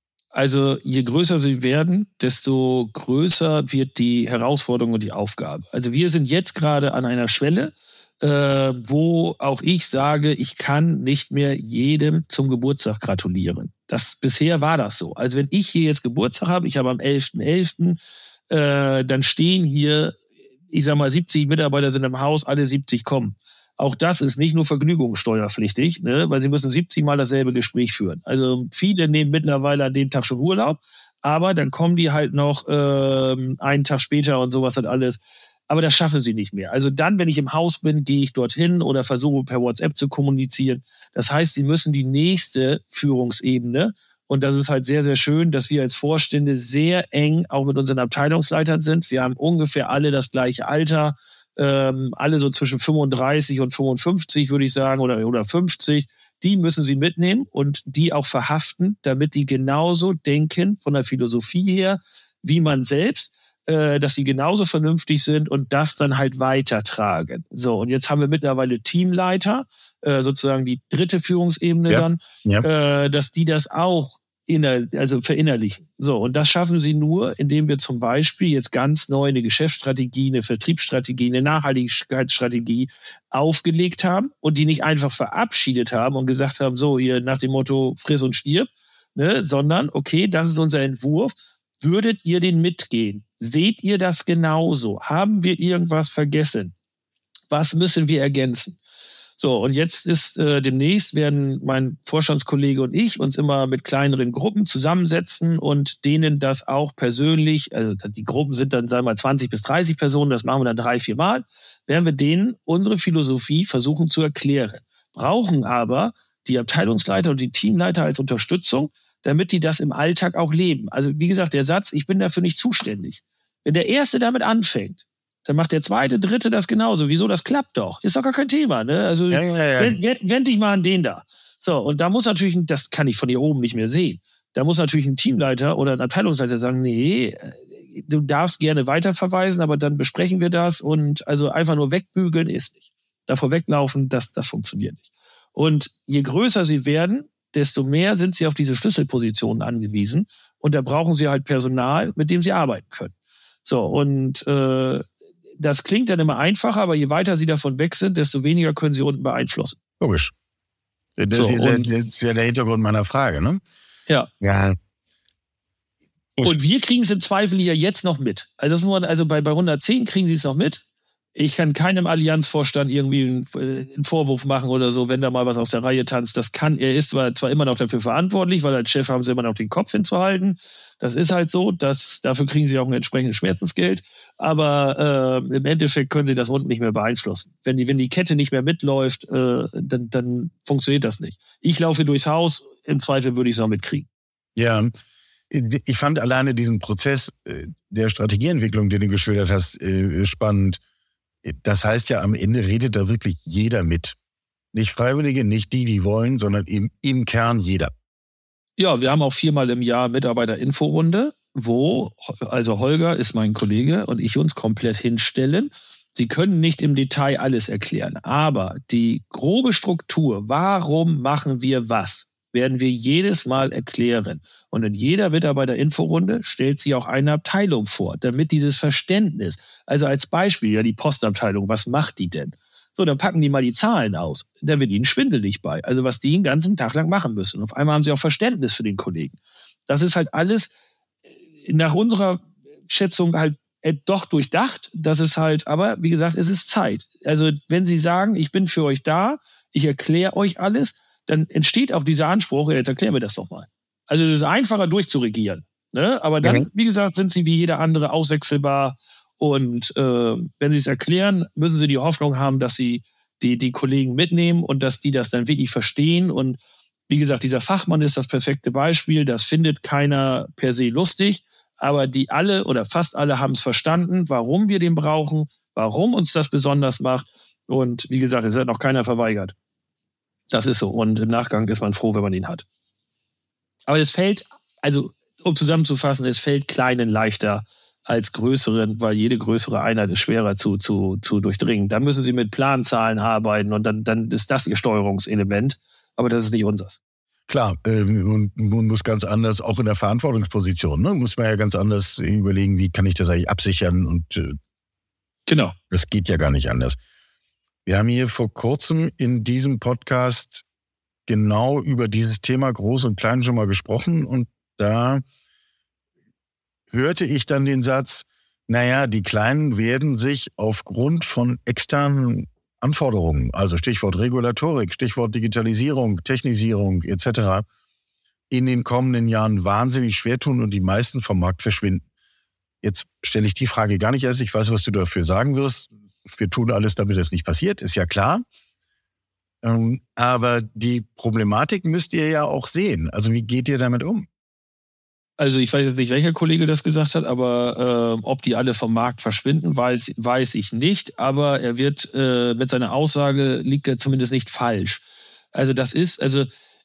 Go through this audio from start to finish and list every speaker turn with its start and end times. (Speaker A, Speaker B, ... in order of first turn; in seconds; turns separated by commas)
Speaker A: 0.3-18.0, Speaker A: 18.5-20.2, Speaker A: 20.7-96.7, Speaker B: 71.9-72.7, Speaker A: 97.5-98.8, Speaker A: 99.4-153.1, Speaker B: 129.3-130.0, Speaker A: 153.6-155.1, Speaker A: 155.6-159.8, Speaker B: 160.0-160.3, Speaker B: 161.2-163.6, Speaker A: 161.3-161.9, Speaker B: 164.4-164.8, Speaker A: 166.4-170.8, Speaker A: 171.3-194.1, Speaker B: 194.6-194.9, Speaker B: 195.5-200.8, Speaker B: 201.4-204.2, Speaker B: 204.7-207.9, Speaker A: 208.8-239.3, Speaker A: 239.9-240.7, Speaker A: 241.7-266.6, Speaker A: 267.1-279.5, Speaker A: 280.5-282.6, Speaker A: 283.9-297.0, Speaker B: 297.5-304.6, Speaker A: 305.5-305.7, Speaker B: 305.9-307.0, Speaker B: 307.9-310.6, Speaker B: 311.3-315.2, Speaker B: 316.9-327.6, Speaker B: 328.5-332.0, Speaker B: 332.8-338.4, Speaker B: 339.6-344.3, Speaker A: 345.4-355.0, Speaker A: 355.5-356.5